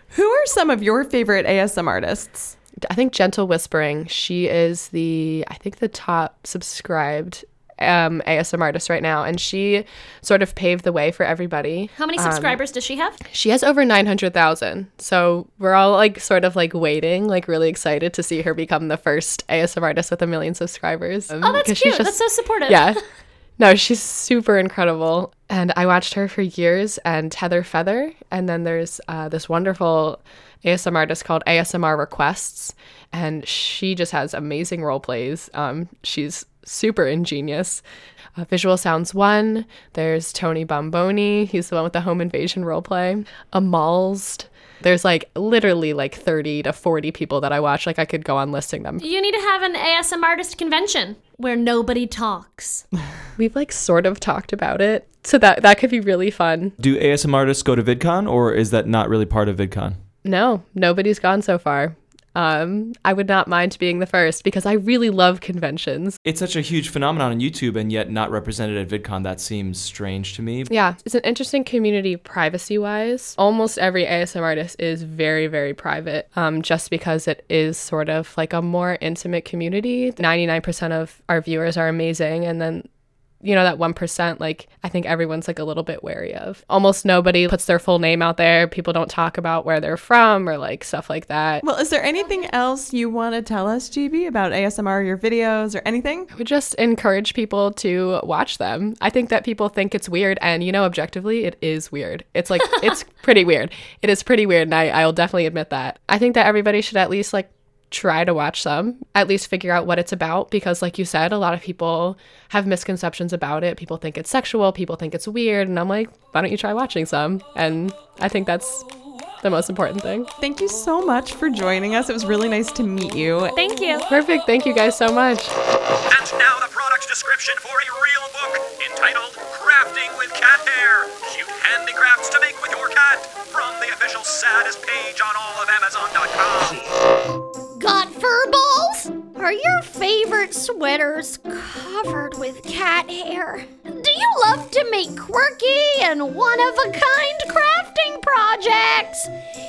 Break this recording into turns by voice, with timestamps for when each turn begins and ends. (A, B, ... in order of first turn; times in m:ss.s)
0:00.1-0:02.6 A
0:02.8-0:12.6 B
0:12.0-0:13.2 C
0:13.2-0:23.0 B
0:21.4-0:23.0 C
0:23.6-0:37.8 B
0:38.4-0:49.0 B
0:49.0-0:52.8 C
0:53.4-0:56.8 B
0:56.8-1:00.0 D
1:00.2-1:06.2 B
1:06.2-1:10.7 D
1:10.7-1:22.9 B
1:23.4-1:31.6 B
1:31.6-1:36.3 A
1:36.3-1:58.9 B
1:59.4-2:00.3 B
2:00.4-2:03.6 A
2:03.6-2:04.1 C
2:04.1-2:05.5 B
2:06.1-2:16.9 E
2:17.8-2:29.3 F